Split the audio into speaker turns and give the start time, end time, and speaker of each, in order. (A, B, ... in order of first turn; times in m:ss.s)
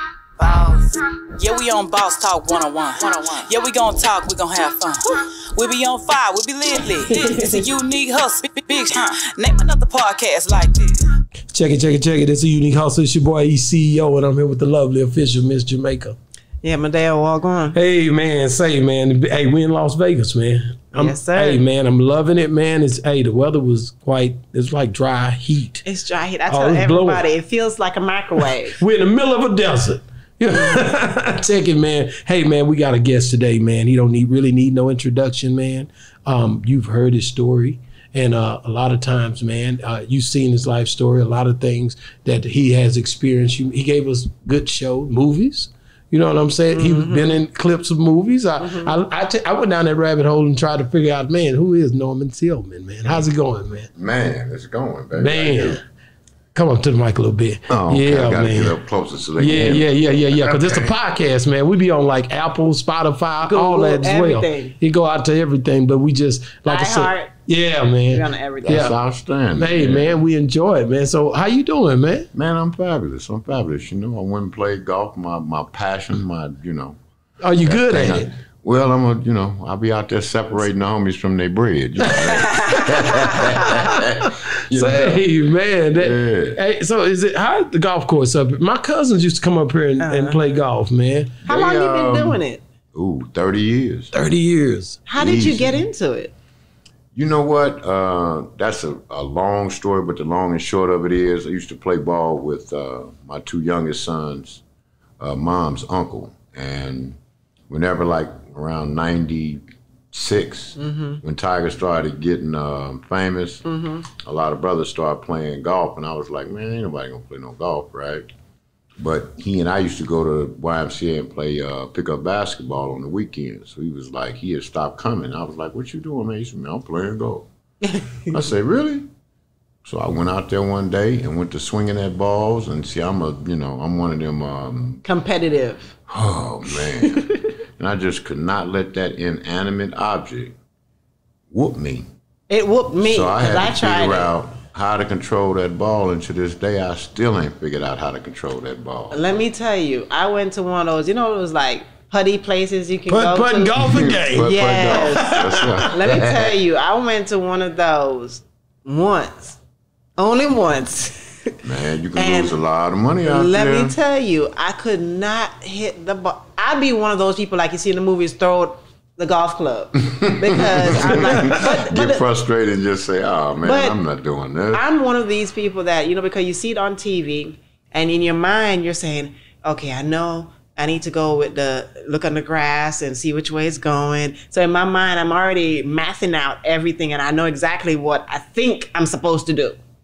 0:00.4-0:11.1 A
0:11.5-0:16.2 B
0:16.6-0:17.8 C
0:17.7-0:25.8 B
0:20.9-0:21.6 C
0:25.8-0:28.8 C
0:26.5-0:27.2 B
0:28.7-0:53.9 B
0:46.7-0:47.4 C
0:48.6-0:48.9 C
0:54.0-0:55.8 D
0:55.2-0:55.8 B
0:56.5-0:58.8 B
0:57.7-1:01.0 D
0:59.4-1:08.9 B
1:03.4-1:04.8 C
1:06.7-1:07.3 C
1:08.1-1:08.9 C
1:08.6-1:10.2 D
1:09.5-1:12.3 B
1:12.3-1:17.0 D
1:17.4-1:18.3 B
1:17.6-1:25.2 D
1:22.2-1:23.6 C
1:23.6-1:31.4 B
1:25.9-1:26.6 D
1:30.0-1:30.4 C
1:31.4-1:32.4 D
1:31.4-1:32.6 C
1:32.9-1:34.1 D
1:34.1-1:35.0 B
1:35.1-1:36.3 C
1:35.2-1:35.9 D
1:37.1-1:44.6 D
1:45.2-1:47.2 D
1:47.7-1:58.2 D
1:50.8-1:51.2 C
1:53.6-1:54.1 C
1:59.0-2:07.5 D
2:07.8-2:08.4 C
2:08.3-2:09.1 D
2:09.8-2:15.0 D
2:15.0-2:16.0 C
2:16.1-2:20.6 D
2:16.8-2:17.5 C
2:21.5-2:22.1 D
2:22.5-2:24.3 C
2:23.0-2:29.2 D
2:29.1-2:39.6 C
2:33.1-2:35.9 B
2:33.8-2:36.6 D
2:40.2-2:41.6 C
2:41.6-2:43.9 D
2:42.2-2:42.6 C
2:43.2-2:52.2 C
2:50.1-2:54.8 D
2:53.6-2:54.0 C
2:54.7-3:09.8 C